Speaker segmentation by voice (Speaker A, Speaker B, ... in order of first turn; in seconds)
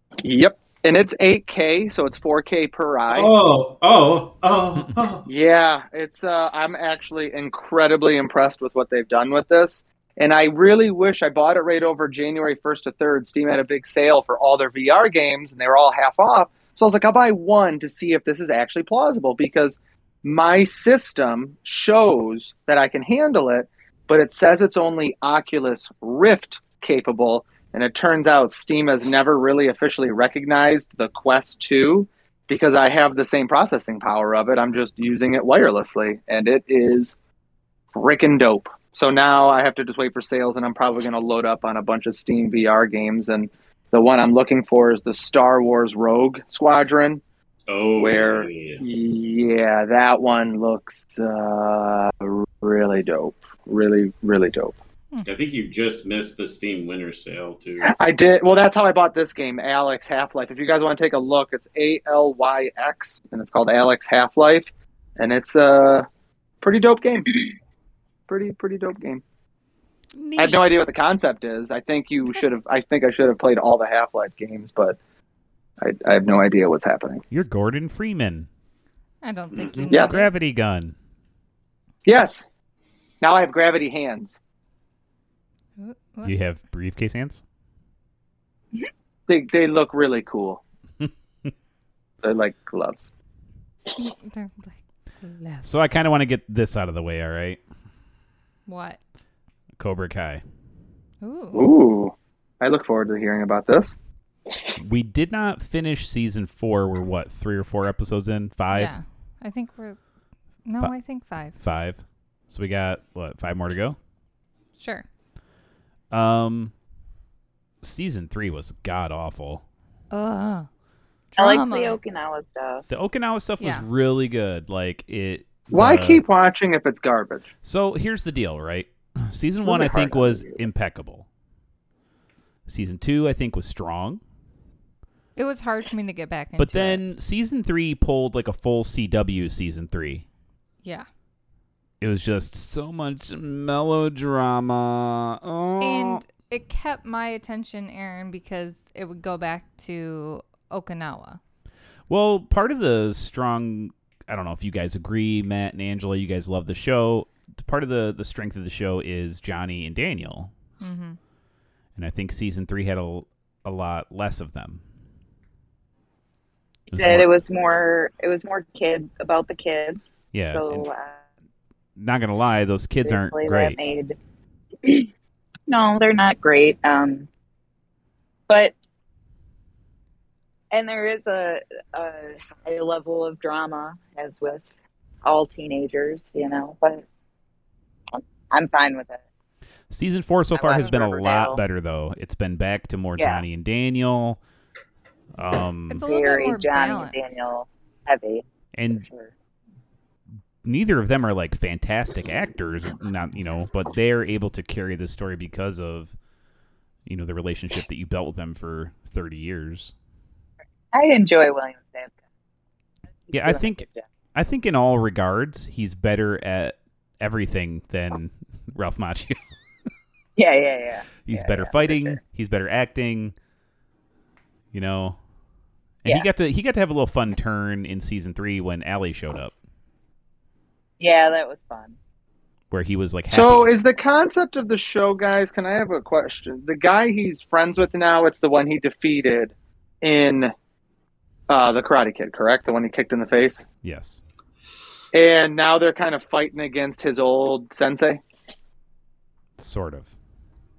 Speaker A: 0.2-3.3, 5.2-37.1, 37.9-47.2, 48.0-54.8, 57.8-66.0, 66.6-67.5, 68.3-69.2, 70.4-75.0, 75.8-77.2, 79.9-80.2, 82.0-82.5, 83.2-84.4, 89.3-90.6, 92.2-93.1, 101.5-104.0, 125.7-127.5, 129.6-130.6, 233.3-240.5, 241.5-243.6, 245.1-248.2
Speaker B: 3.1-5.2, 47.7-48.8, 55.2-57.9, 79.5-79.9
Speaker C: 70.2-70.8, 77.3-78.5, 80.0-80.9, 86.2-87.4, 91.0-91.5, 95.6-97.6, 99.8-100.4, 104.8-108.9, 111.6-114.0, 116.1-116.7, 117.8-119.6, 122.9-126.2, 127.6-131.2, 132.7-134.2, 136.6-140.2, 142.0-146.2, 152.1-160.5, 161.9-164.8, 166.9-167.2, 170.3-170.8, 172.0-173.8, 189.9-194.4, 195.3-196.1, 198.7-199.1, 200.6-206.1, 207.1-209.9, 213.3-213.8, 214.3-219.4, 221.2-223.3, 224.7-225.2, 226.0-229.5, 232.7-233.7, 243.8-244.2, 249.6-250.1
Speaker D: 79.2-80.3, 85.8-86.3, 94.0-95.8, 98.7-99.2, 101.2-101.7, 108.7-110.0, 110.6-111.6, 114.8-115.0, 120.1-120.7, 121.3-122.0, 123.6-123.8, 135.3-137.0, 145.8-151.4, 160.8-161.2, 195.9-197.4
Speaker E: 121.4-122.8, 166.9-171.2, 173.0-174.2, 175.7-177.3, 178.5-178.8, 180.7-184.7, 185.2-187.1, 188.1-189.2, 190.5-191.6, 193.2-193.4, 196.0-199.3, 210.9-212.2, 213.3-214.1, 220.4-222.2, 231.0-232.0